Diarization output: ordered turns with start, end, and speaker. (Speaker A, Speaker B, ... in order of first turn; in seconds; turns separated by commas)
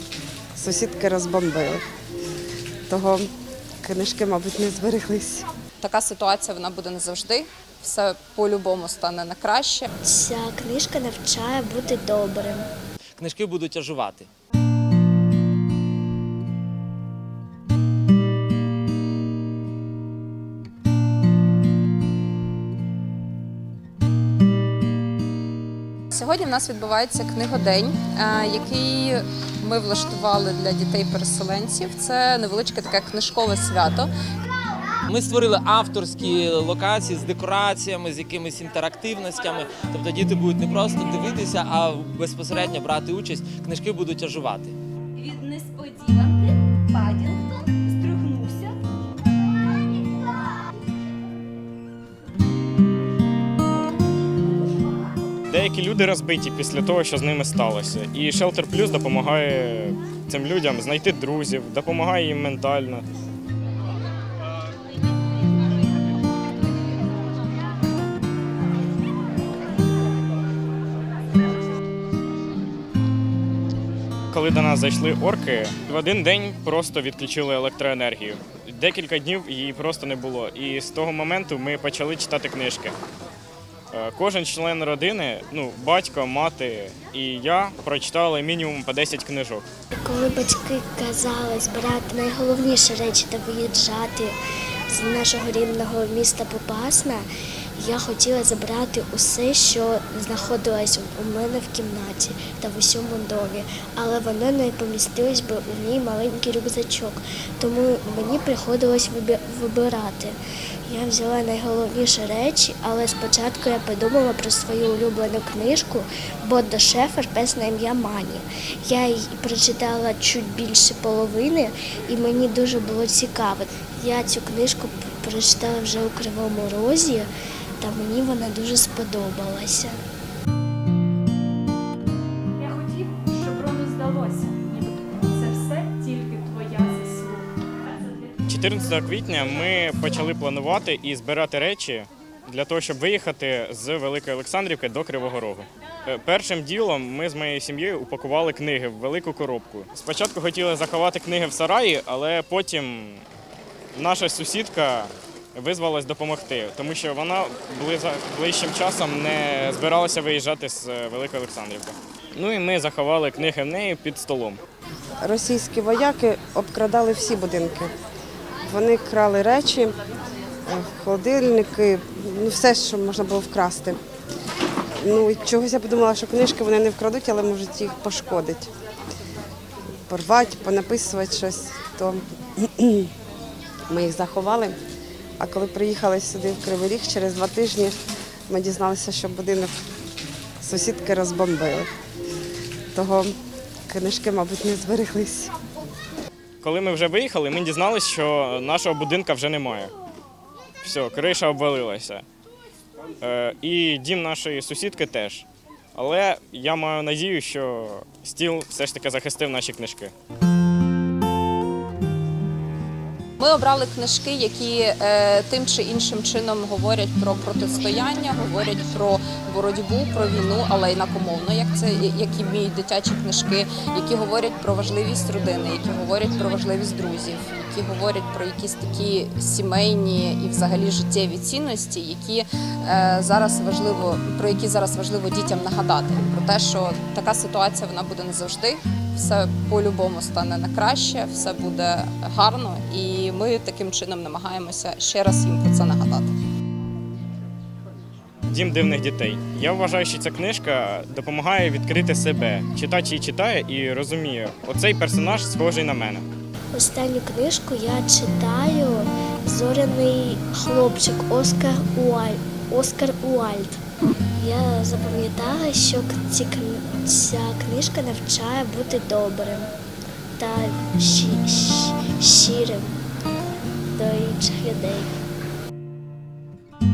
Speaker A: 0.5-1.8, Speaker A: 2.9-3.3, Speaker A: 3.8-5.5, Speaker B: 5.8-9.9, Speaker C: 10.0-12.7, Speaker D: 13.2-14.3, Speaker B: 26.1-34.1, Speaker D: 35.1-44.8, Speaker E: 45.2-48.8, Speaker F: 55.5-63.0, Speaker F: 74.3-83.0, Speaker F: 83.9-89.6, Speaker C: 89.9-94.3, Speaker C: 94.9-127.3, Speaker C: 127.8-130.0, Speaker E: 132.6-137.5, Speaker E: 138.0-138.3, Speaker F: 138.5-153.2, Speaker F: 153.9-164.6, Speaker A: 165.2-167.9, Speaker A: 168.6-169.9, Speaker A: 170.7-174.0, Speaker A: 175.0-178.7, Speaker A: 180.1-183.1, Speaker A: 183.9-184.8, Speaker A: 185.4-189.7, Speaker A: 190.6-191.9, Speaker A: 192.9-193.3, Speaker A: 193.9-195.5, Speaker F: 196.6-199.9, Speaker F: 200.8-202.2, Speaker F: 203.2-210.1, Speaker B: 213.4-246.3, Speaker F: 248.5-256.2, Speaker C: 256.7-263.8, Speaker C: 264.4-269.7, Speaker C: 270.4-273.0, Speaker C: 273.9-275.1